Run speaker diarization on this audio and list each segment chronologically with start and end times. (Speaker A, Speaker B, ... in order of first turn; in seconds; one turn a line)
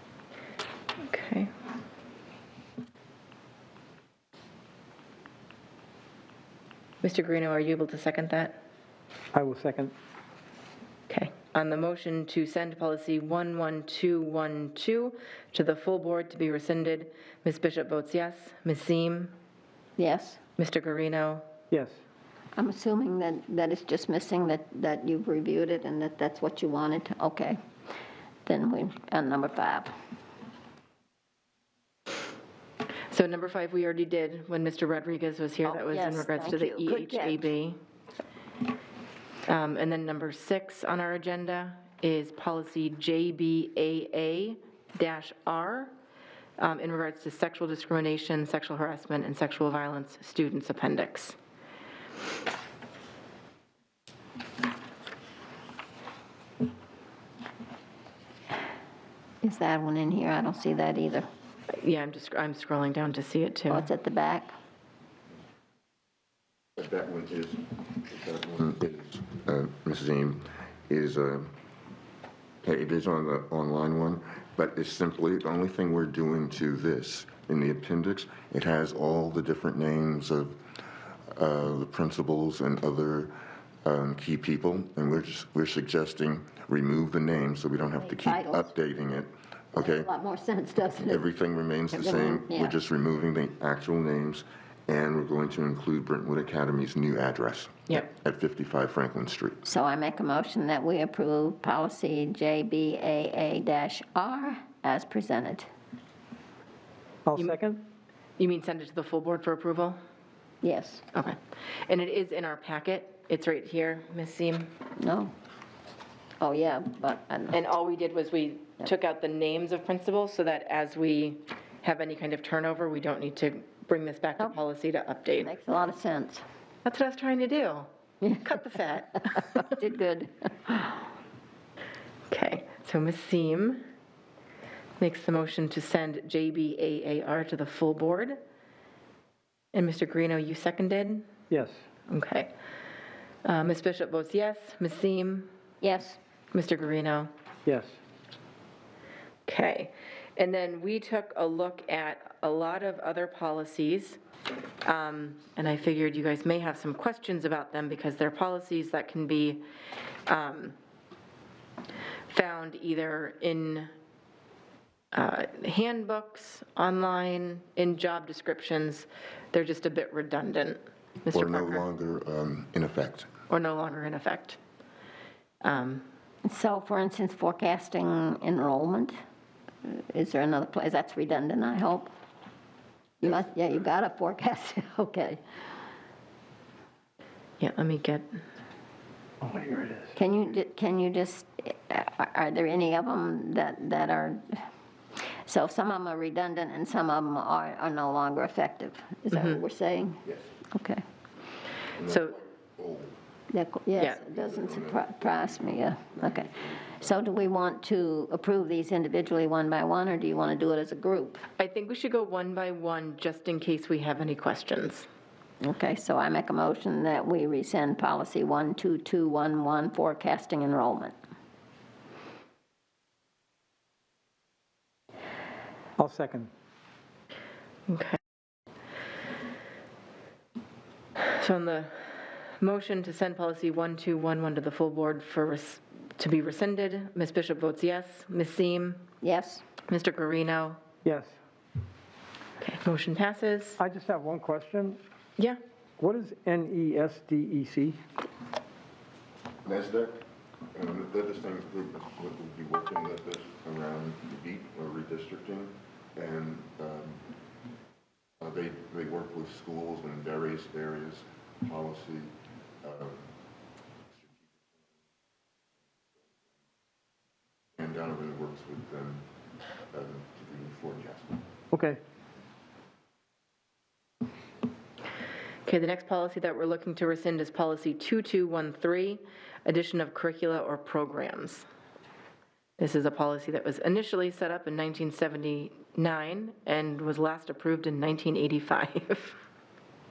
Speaker A: 1.0-1.5
Speaker A: 7.0-8.6
Speaker B: 9.3-9.9
Speaker A: 11.1-19.3
Speaker C: 20.0-20.4
Speaker A: 20.6-21.4
Speaker B: 21.7-22.0
Speaker C: 22.6-27.6
Speaker C: 28.4-29.9
Speaker A: 33.1-37.8
Speaker C: 35.6-37.5
Speaker A: 39.4-45.9
Speaker A: 46.6-51.4
Speaker C: 59.4-61.2
Speaker A: 61.8-63.9
Speaker C: 63.7-64.5
Speaker D: 66.8-71.5
Speaker D: 72.6-80.6
Speaker D: 81.3-90.1
Speaker C: 88.0-88.7
Speaker C: 89.8-91.3
Speaker D: 91.0-99.6
Speaker C: 91.9-92.7
Speaker C: 99.6-105.7
Speaker B: 107.2-107.8
Speaker A: 108.4-110.0
Speaker C: 110.6-111.0
Speaker A: 111.1-114.7
Speaker C: 115.0-115.3
Speaker C: 116.4-117.6
Speaker A: 117.5-125.5
Speaker C: 125.4-126.4
Speaker A: 126.8-129.7
Speaker C: 129.3-131.1
Speaker A: 132.3-133.8
Speaker A: 135.0-138.4
Speaker A: 139.7-141.3
Speaker B: 141.5-141.8
Speaker A: 142.1-142.5
Speaker A: 143.4-145.5
Speaker C: 145.8-146.2
Speaker A: 146.5-147.3
Speaker B: 147.7-148.0
Speaker A: 149.5-154.2
Speaker A: 154.8-159.6
Speaker A: 160.3-160.8
Speaker A: 162.3-163.9
Speaker A: 165.1-171.8
Speaker D: 171.3-173.3
Speaker A: 173.5-174.6
Speaker A: 175.6-176.0
Speaker C: 176.4-179.1
Speaker C: 179.8-182.1
Speaker C: 183.2-185.4
Speaker A: 187.6-188.4
Speaker B: 189.4-190.1
Speaker C: 190.1-194.7
Speaker C: 195.4-201.0
Speaker A: 199.3-199.6
Speaker D: 200.2-200.5
Speaker D: 201.9-203.2
Speaker A: 202.1-202.3
Speaker C: 203.5-211.4
Speaker D: 204.1-207.1
Speaker A: 211.6-215.1
Speaker C: 215.6-221.1
Speaker B: 226.0-226.5
Speaker A: 227.9-228.2
Speaker A: 231.2-239.0
Speaker C: 239.2-239.6
Speaker A: 239.9-240.8
Speaker B: 241.0-241.3
Speaker A: 242.6-243.8
Speaker B: 243.8-245.0
Speaker B: 246.0-248.0
Speaker D: 249.6-250.2
Speaker D: 250.7-257.2
Speaker D: 258.4-262.3
Speaker D: 262.8-263.2
Speaker D: 264.2-264.8
Speaker D: 265.9-266.5
Speaker D: 267.8-269.2
Speaker D: 269.9-271.4
Speaker B: 271.7-272.0
Speaker A: 275.6-281.6
Speaker A: 282.8-289.4